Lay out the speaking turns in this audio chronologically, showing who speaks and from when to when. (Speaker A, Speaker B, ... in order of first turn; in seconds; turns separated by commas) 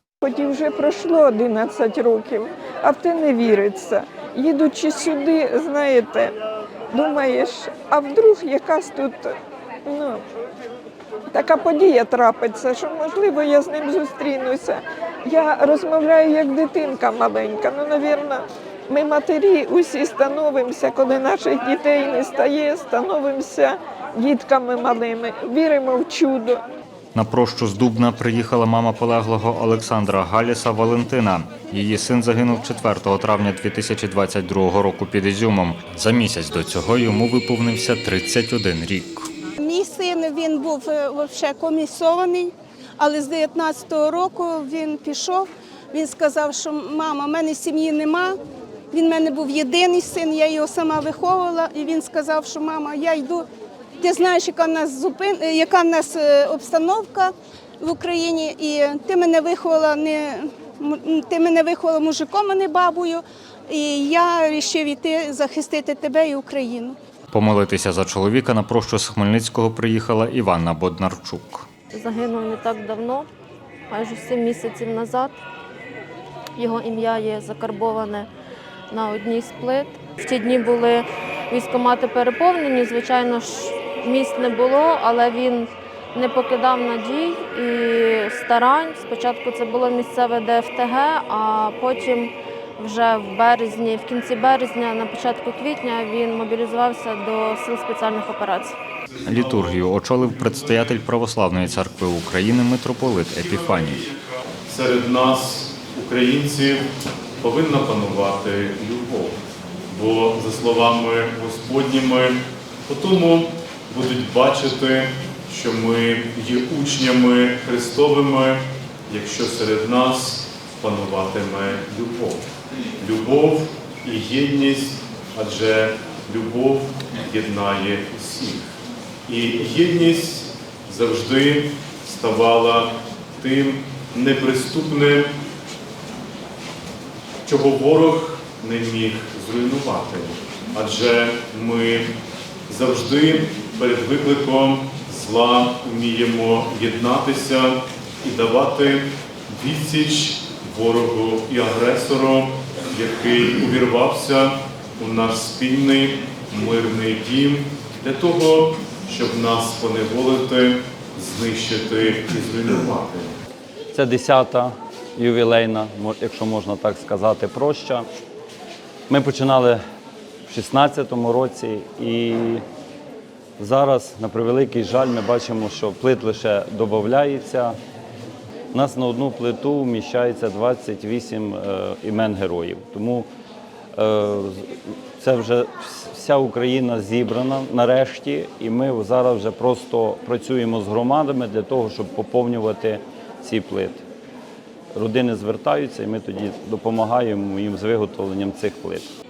Speaker A: 0.2-6.4, Speaker A: 6.9-10.2, Speaker A: 11.3-26.6, Speaker B: 27.1-39.3, Speaker C: 39.6-48.4, Speaker C: 48.9-53.5, Speaker C: 54.0-67.0, Speaker B: 67.3-71.7, Speaker D: 71.9-73.2, Speaker D: 73.9-75.3, Speaker D: 76.6-78.3, Speaker D: 78.9-98.8, Speaker B: 99.2-104.1, Speaker E: 99.3-99.8, Speaker E: 104.7-109.4, Speaker E: 109.9-122.4, Speaker E: 123.0-128.7, Speaker E: 129.3-135.3, Speaker E: 137.4-142.1, Speaker E: 142.7-163.3, Speaker F: 163.9-168.1, Speaker F: 169.1-169.8, Speaker F: 170.5-172.6, Speaker F: 173.6-177.7, Speaker F: 178.7-183.3, Speaker F: 183.9-184.7, Speaker F: 185.2-194.0, Speaker F: 194.9-199.1